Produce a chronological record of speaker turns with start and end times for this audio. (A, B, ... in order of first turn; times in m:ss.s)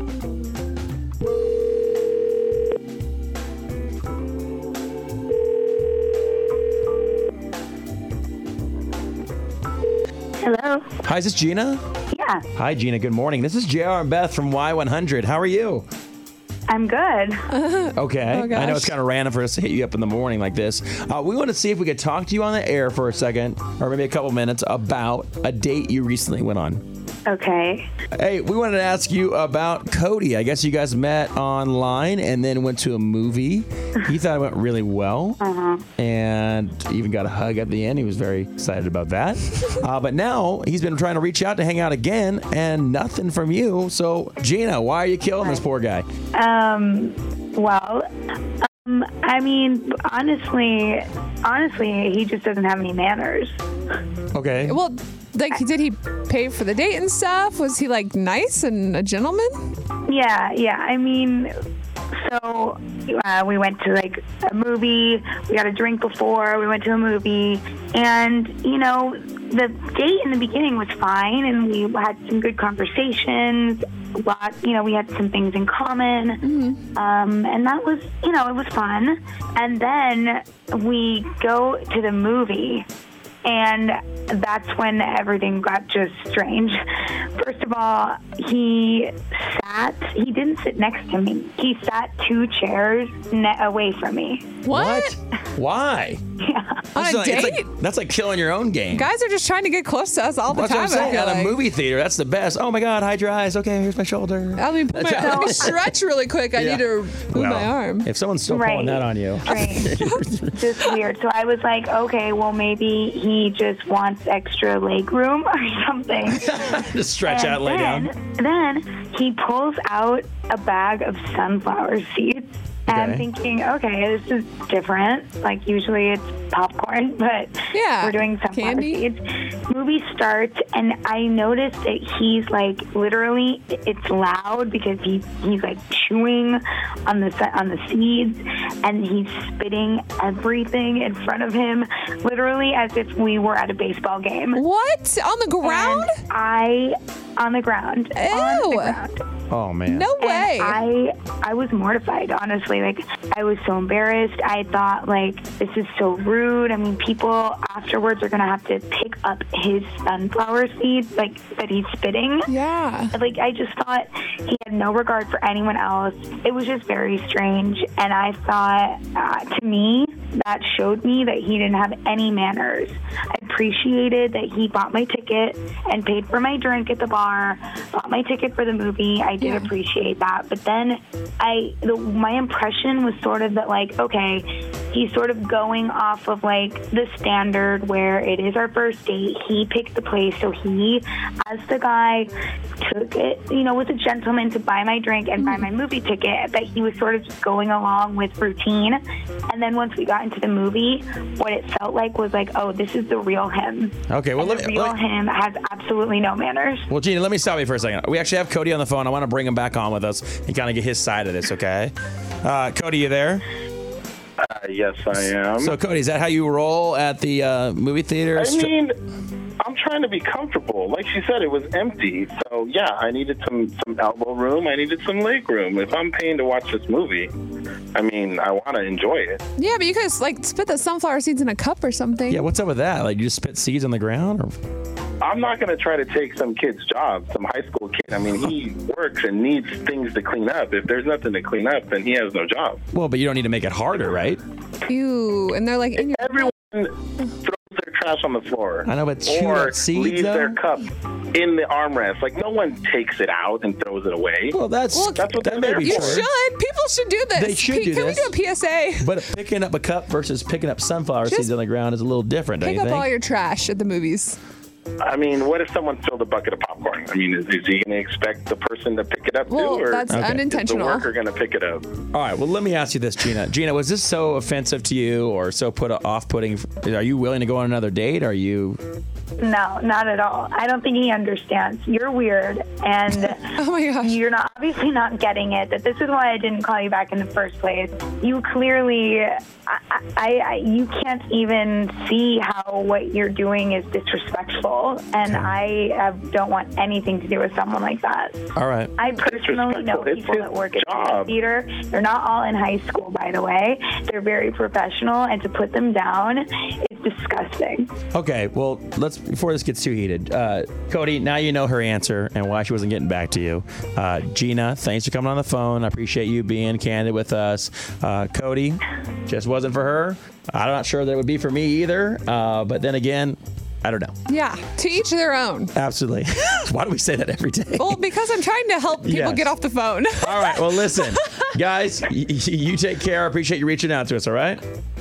0:10.4-0:10.9 A
0:11.0-0:11.8 B
0:12.1-0:12.5 A
0:12.6-0:15.8 B
0:16.7-0:17.5 A
0:17.5-0:18.9 C
0:18.0-0:26.8 B
0:27.3-0:27.9 A
0:28.2-0:35.4 B
0:35.4-0:35.8 A
0:36.0-0:46.1 B
0:46.3-0:48.1 A
0:48.6-0:53.6 A
0:54.3-0:54.8 B
0:54.7-0:59.6 C
1:00.1-1:01.5 A
1:02.2-1:22.9 A
1:16.4-1:16.8 C
1:23.4-1:26.8 A
1:27.4-1:34.6 A
1:34.6-1:35.2 C
1:34.7-1:36.2 B
1:36.4-1:36.8 A
1:36.9-1:39.1 B
1:37.0-1:37.7 C
1:38.9-1:41.6 C
1:40.5-1:45.9 B
1:44.6-1:48.1 C
1:46.6-1:50.6 B
1:48.5-1:50.0 A
1:50.5-2:24.6 A
1:56.3-1:58.1 B
2:02.9-2:03.3 B
2:07.7-2:09.0 C
2:24.5-2:26.2 C
2:25.6-2:29.2 A
2:28.2-2:29.0 C
2:29.5-2:30.1 B
2:29.9-2:30.8 C
2:30.2-2:42.5 A
2:42.5-2:43.1 C
2:43.1-3:12.3 A
2:59.4-2:59.7 C
3:12.8-3:26.9 A
3:24.1-3:25.0 B
3:26.9-3:33.4 B
3:34.4-3:35.7 D
3:35.6-3:38.7 B
3:38.4-3:39.0 D
3:39.6-3:47.3 D
3:48.0-3:49.4 D
3:49.6-3:52.4 C
3:52.3-3:54.5 B
3:55.2-4:02.8 D
4:02.9-4:04.4 B
4:04.9-4:06.5 C
4:06.0-4:14.6 D
4:08.8-4:10.6 B
4:14.5-4:16.3 B
4:14.9-4:19.1 C
4:15.2-4:16.3 D
4:17.4-4:18.4 B
4:19.0-4:23.1 B
4:21.2-4:21.5 C
4:22.6-4:24.4 C
4:25.0-4:31.9 D
4:29.5-4:31.1 C
4:30.1-4:30.5 B
4:32.1-4:38.8 B
4:39.4-4:58.5 A
4:43.5-4:44.1 C
4:58.6-4:58.9 B
4:59.0-5:07.9 A
4:59.2-5:01.4 D
5:08.1-5:24.2 B
5:24.3-5:25.7 C
5:25.7-5:28.0 B
5:27.8-5:31.4 C
5:29.0-5:29.5 B
5:30.2-5:34.6 B